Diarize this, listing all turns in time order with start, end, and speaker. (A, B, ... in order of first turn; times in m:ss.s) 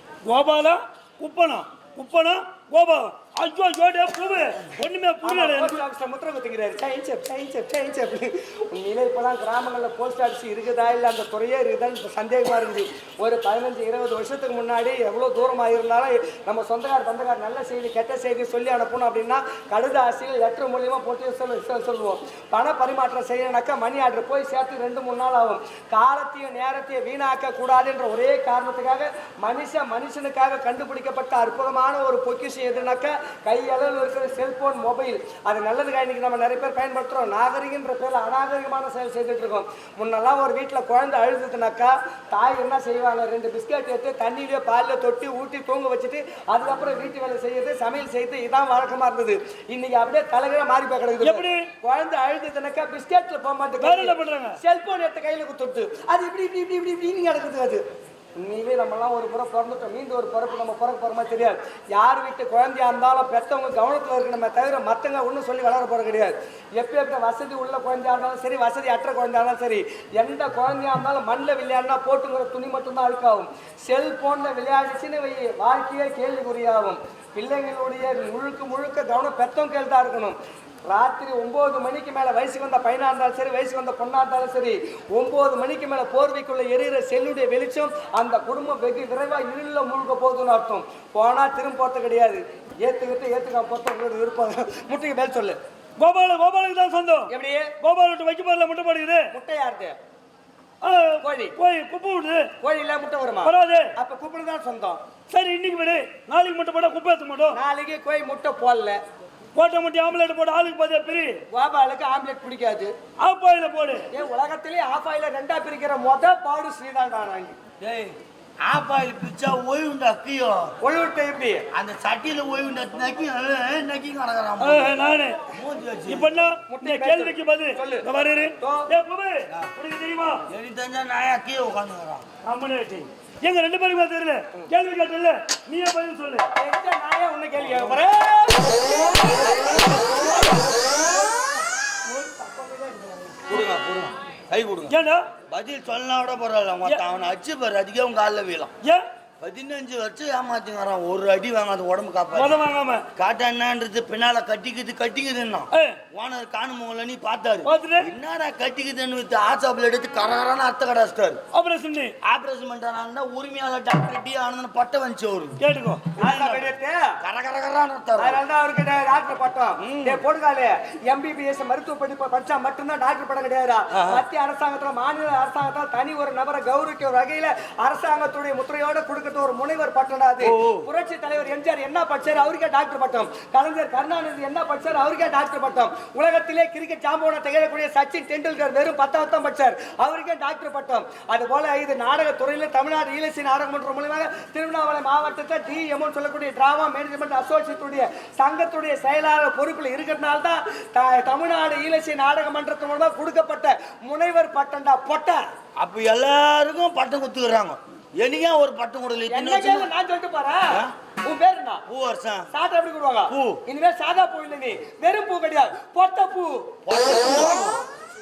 0:00.2-0:05.8 A
0:05.2-0:57.8 B
0:51.2-0:51.7 A
0:53.8-0:54.6 A
0:58.4-1:35.6 B
1:36.0-1:37.3 A
1:37.3-1:37.7 B
1:37.8-1:39.3 A
1:39.3-1:40.0 B
1:40.8-1:42.5 A
1:41.2-1:41.6 B
1:42.6-1:45.0 B
1:43.4-1:43.9 A
1:45.3-1:47.6 A
1:47.5-1:49.0 B
1:49.6-1:51.4 A
1:51.5-1:52.9 B
1:53.2-1:54.1 A
1:54.1-1:57.6 B
1:57.8-2:00.7 C
2:00.8-2:01.6 B
2:01.7-2:04.9 C
2:04.6-2:05.4 A
2:05.5-2:06.4 C
2:06.1-2:10.4 A
2:06.7-2:08.1 B
2:08.6-2:08.9 B
2:10.5-2:12.2 C
2:12.4-2:16.5 A
2:16.6-2:23.5 B
2:17.6-2:18.0 C
2:23.5-2:24.9 C
2:24.9-2:25.3 A
2:25.5-2:28.7 C
2:29.4-2:32.6 C
2:32.3-2:33.0 A
2:33.2-2:41.4 C
2:37.6-2:38.1 A
2:41.5-2:42.1 A
2:42.2-2:45.6 C
2:45.6-2:46.2 A
2:46.2-2:47.1 B
2:46.2-2:48.4 C
2:48.2-3:25.4 B
2:49.8-2:50.2 C
2:53.9-2:54.2 C
3:00.4-3:00.9 C
3:25.8-3:29.9 C
3:29.3-3:30.7 B
3:31.2-3:31.8 B
3:31.9-3:32.5 C
3:32.5-3:36.7 B
3:33.3-3:33.6 C
3:36.9-3:37.8 C